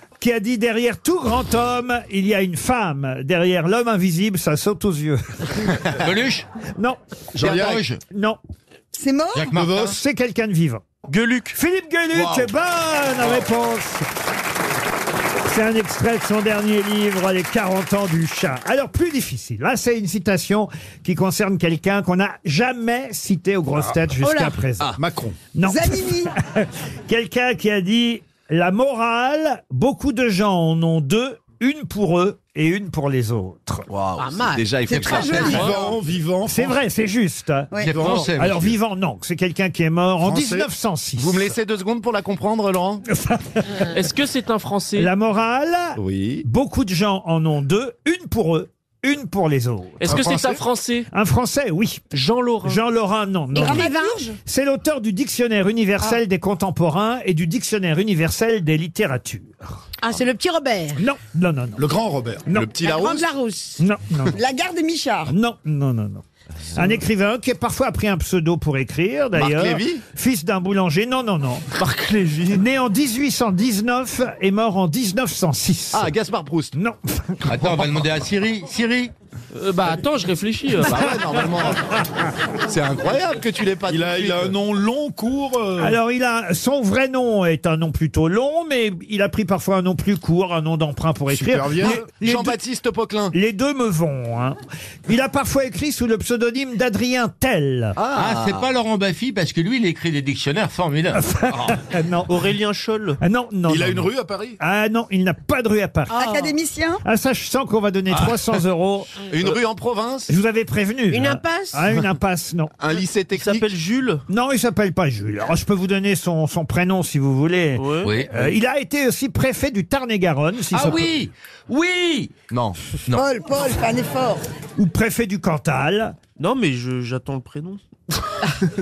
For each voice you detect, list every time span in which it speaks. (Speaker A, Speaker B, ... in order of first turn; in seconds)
Speaker A: 0.2-5.6, 8.1-8.4, 9.7-10.9, 11.5-14.1, 15.4-24.9, 25.5-33.9, 36.5-41.5, 43.1-43.8, 45.0-50.1, 51.1-52.0, 52.6-53.9, 54.5-59.5, 61.0-61.8, 63.8-64.4, 65.3-71.7, 72.5-76.1, 76.7-77.8, 80.8-81.1, 85.8-92.6, 93.3-98.0, 101.2-102.3, 103.2-106.2, 107.0-109.1, 110.3-112.7, 114.3-121.1, 124.8-126.2
Speaker B: 5.9-6.5, 7.4-8.0, 9.3-9.9, 34.9-35.7, 37.8-38.7, 77.5-79.1, 98.1-101.3, 118.0-118.3, 120.7-123.2
Speaker C: 7.3-7.8, 9.5-9.9, 25.0-25.4, 35.5-36.8, 37.9-38.3, 40.2-40.7, 50.0-50.6, 61.8-62.5, 83.9-86.0, 91.3-92.0, 103.7-104.6
Speaker D: 8.9-9.5, 25.6-26.3, 34.9-36.0, 37.7-38.1, 53.5-54.3, 64.3-65.3, 106.1-107.0, 123.1-124.4
Speaker E: 11.1-11.5, 43.9-45.1, 50.0-51.0, 52.1-52.8, 79.5-80.9, 102.3-103.2, 113.3-114.2, 117.8-118.5, 126.4-127.8
Speaker F: 24.2-24.6, 34.2-34.7, 53.5-54.2, 60.0-61.0, 62.8-63.8, 106.1-106.6, 111.1-111.8
Speaker G: 33.9-35.7, 41.2-43.0, 46.0-46.4, 62.5-63.3, 69.3-70.0, 71.8-72.6, 75.9-76.7, 80.8-81.9, 82.6-84.5, 91.9-93.3, 98.0-98.7, 109.3-110.3, 112.8-113.7